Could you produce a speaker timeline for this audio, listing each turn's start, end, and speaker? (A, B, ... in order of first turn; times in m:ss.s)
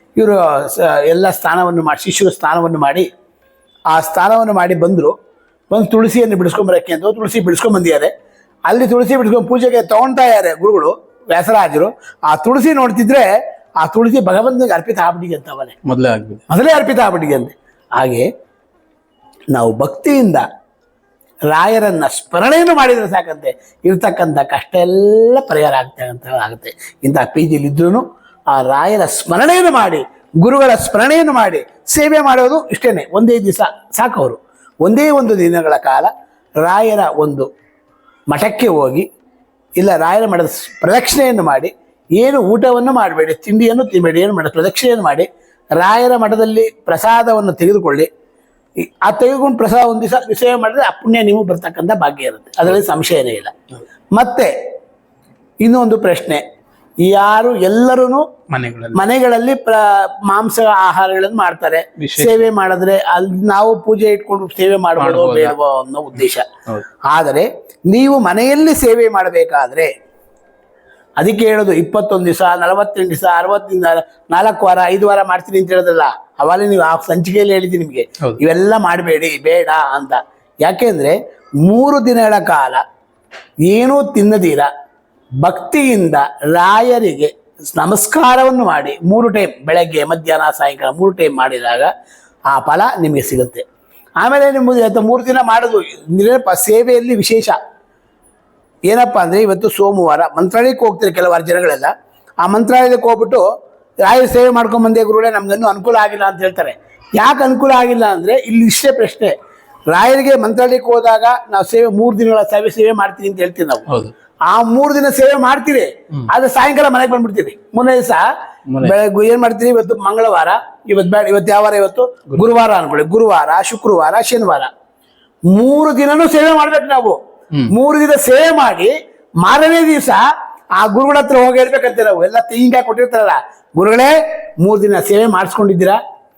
0:00.2-0:03.0 A
0:03.9-0:05.1 A
0:05.7-0:08.1 A
0:08.6-0:13.3 A
0:13.8-0:15.7 A
0:15.8-0:16.4 B
0:16.5-0:18.3 A
0:19.5-0:20.4 A
0:21.5-0:36.1 A
0:36.6-0:37.5 A
0:38.3-0:39.0 A
0:39.8-0:45.2 A
0:45.8-0:48.1 A
0:48.8-0:53.5 A
0:54.1-0:54.5 A
0:55.6-0:56.4 A
0:57.0-0:58.2 A
0:58.5-0:59.0 B
0:58.9-1:06.4 A
1:02.0-1:02.5 B
1:05.0-1:05.5 B
1:06.2-1:06.8 B
1:07.1-1:09.9 A
1:11.2-1:22.8 A
1:23.6-1:24.7 A
1:25.4-1:31.9 A
1:32.5-1:33.6 A
1:34.2-1:37.6 A
1:38.9-1:41.9 A
1:42.4-1:43.4 A
1:44.0-1:49.3 A
1:49.9-1:53.9 A
1:54.5-1:58.2 A
1:58.8-2:04.7 A
2:05.5-2:07.2 A
2:07.7-2:10.2 A
2:10.8-2:16.0 A